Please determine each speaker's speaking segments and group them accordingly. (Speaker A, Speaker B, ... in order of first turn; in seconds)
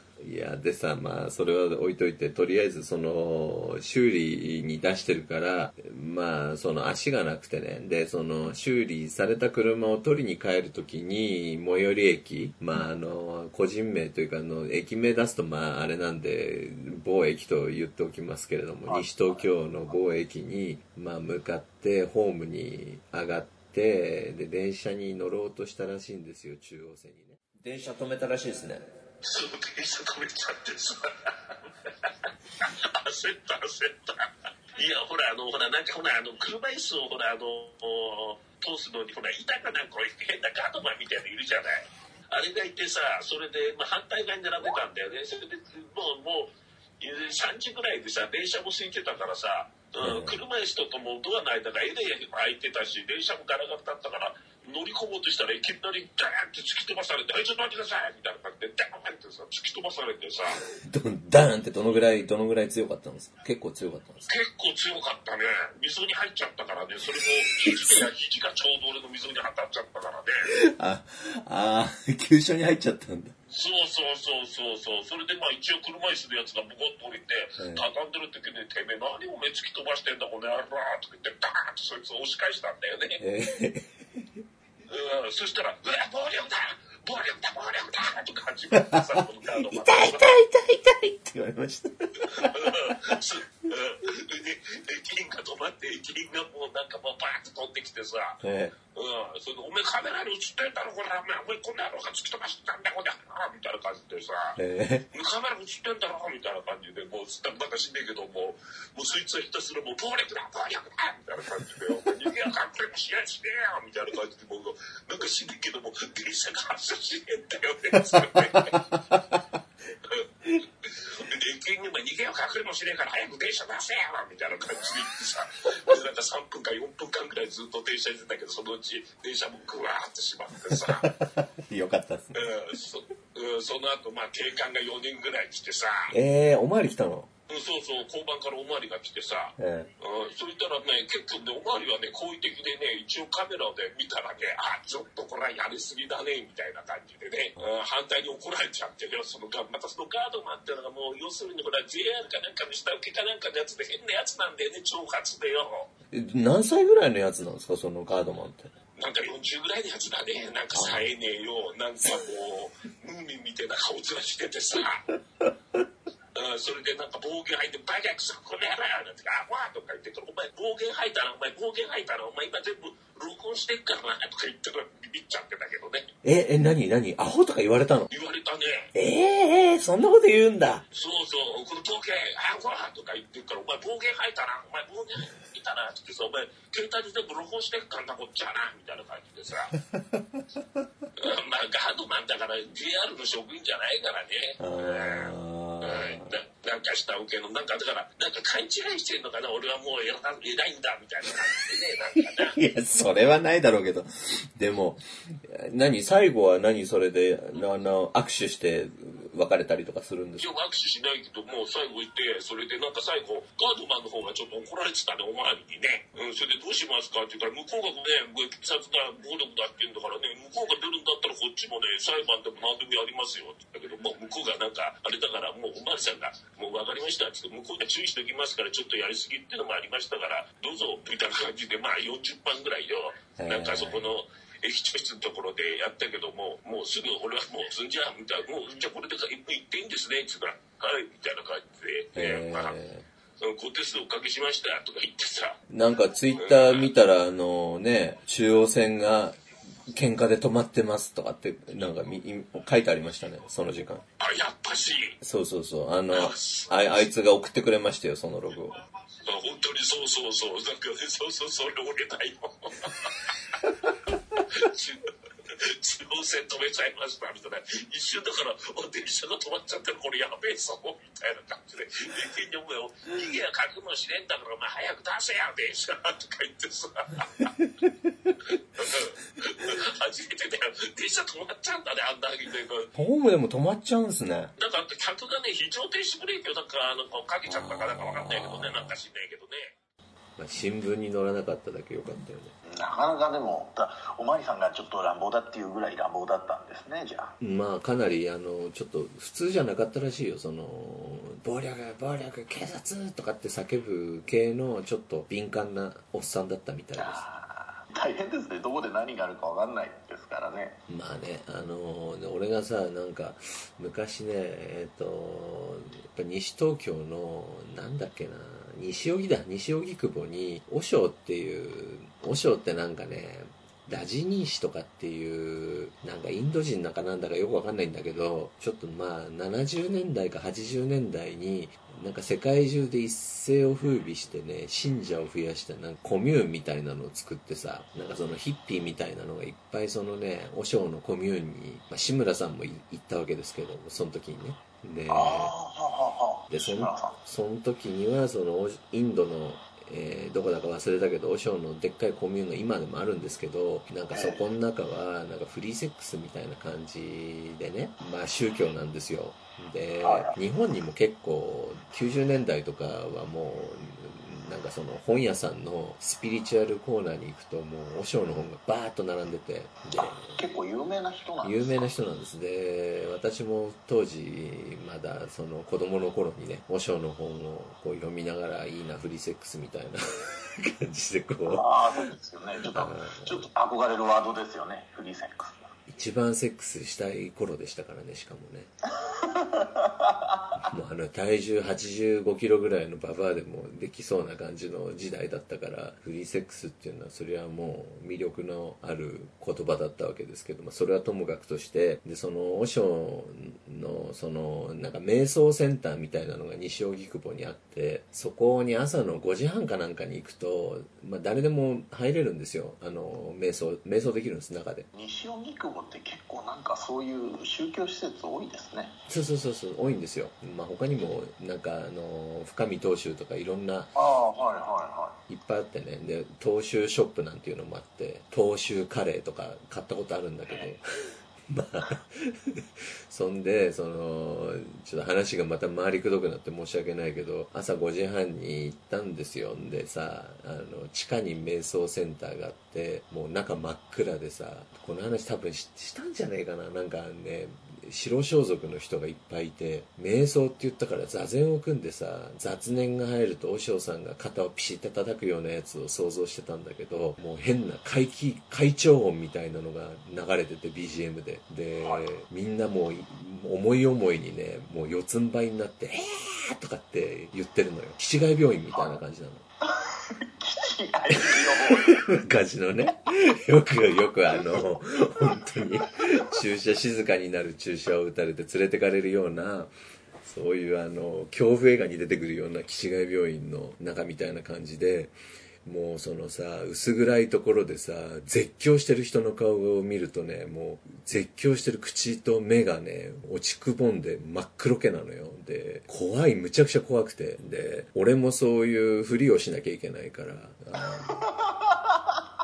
Speaker A: 0.2-28.9, 50.0-50.4, 60.8-64.3, 67.5-68.0, 70.5-73.3, 77.6-77.8, 83.2-84.2, 88.7-89.0, 89.6-93.2, 98.4-98.7, 104.6-105.0, 118.1-119.5, 130.7-132.4, 136.1-137.3, 139.6-139.9, 156.1-158.7, 176.2-178.1, 178.9-180.8, 189.8-190.6, 194.6-196.3, 202.2-210.5, 233.4-234.1, 242.1-243.1, 245.7-254.0, 255.2-258.8, 277.4-278.4, 282.9-284.5, 287.4-288.9, 290.4-292.5, 297.4-307.2, 310.9-345.5, 346.5-370.4, 371.4-381.7, 382.7-383.5, 385.9-388.7, 390.6-414.9, 419.1-423.9, 425.3-430.9, 431.5-469.4, 471.3-479.7, 480.2-501.2
Speaker B: 18.9-19.4, 292.6-297.3, 307.0-310.8, 345.1-347.2, 354.1-354.4, 360.0-360.3, 370.2-371.8, 381.5-385.7, 389.0-390.4, 414.9-418.9, 423.9-425.2, 430.5-430.7, 468.7-469.0, 469.6-472.1, 474.3-475.6, 501.1-502.2
Speaker C: 29.2-60.6, 64.3-70.5, 73.5-83.2, 84.9-90.3, 92.3-98.4, 98.9-104.6, 105.1-118.8, 120.8-131.1, 132.3-136.1, 137.5-155.9, 158.9-165.1, 166.3-176.1, 178.1-178.9, 180.9-189.8, 191.2-202.6, 210.4-242.7, 243.4-245.6, 246.4-246.9, 254.2-255.2, 256.1-257.0, 259.2-263.3, 264.5-277.5, 278.5-282.9, 284.6-289.7